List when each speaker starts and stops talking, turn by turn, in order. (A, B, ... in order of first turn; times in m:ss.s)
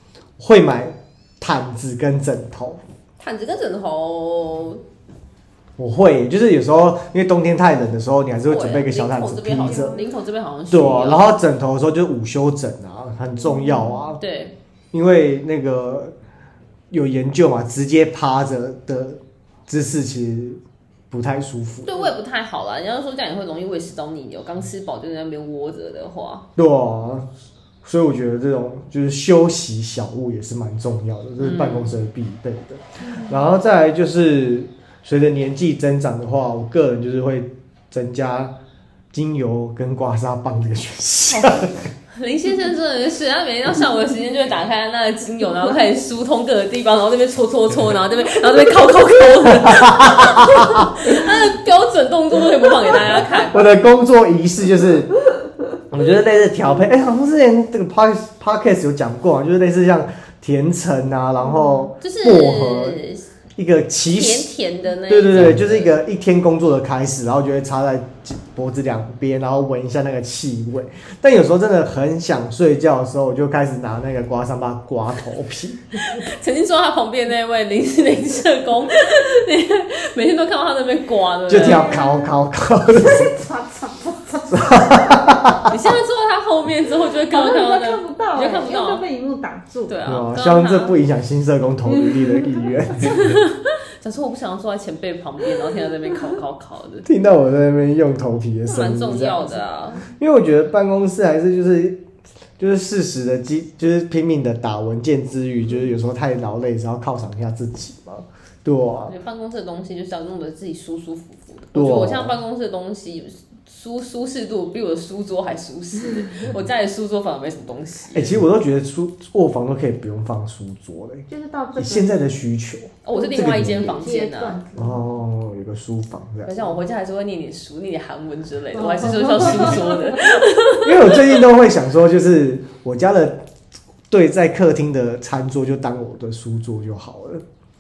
0:00.4-0:02.8 A
0:03.2-0:04.8 B
0:05.8-0:10.0 A
0:08.5-0:11.3 B
0:09.6-0:10.1 C
0:10.7-0:14.2 A
0:13.4-0:14.0 C
0:14.2-0:14.5 B
0:14.9-0:16.1 A
0:16.9-0:20.6 A
0:21.1-0:22.0 A
0:21.8-0:26.4 B
0:26.6-0:27.3 A
0:27.8-0:38.5 A
0:31.4-0:32.0 B
0:33.0-0:33.4 C
0:39.1-0:41.8 A
0:42.1-0:53.6 B
0:49.6-0:50.9 A
0:53.5-0:55.1 A
0:55.9-1:03.0 A
1:01.4-1:01.9 C
1:02.0-1:03.2 B
1:03.6-1:04.5 A
1:04.1-1:05.9 B
1:05.1-1:15.8 A
1:16.1-1:22.0 B
1:21.5-1:23.3 A
1:21.6-1:22.4 C
1:22.9-1:25.6 C
1:24.5-1:25.6 A
1:25.7-1:29.0 B
1:27.3-1:30.0 C
1:29.9-1:31.0 B
1:30.1-1:33.1 A
1:33.0-1:37.1 B
1:37.0-1:39.4 A
1:38.7-1:40.0 B
1:40.1-1:42.0 A
1:42.6-1:49.1 A
1:49.1-1:58.3 B
1:51.8-1:52.4 A
1:58.1-2:04.0 A
2:01.3-2:02.3 C
2:03.0-2:04.6 B
2:03.1-2:05.1 C
2:04.8-2:06.7 A
2:06.4-2:11.4 B
2:08.7-2:10.4 C
2:09.3-2:09.8 A
2:10.8-2:13.4 A
2:14.1-2:17.4 A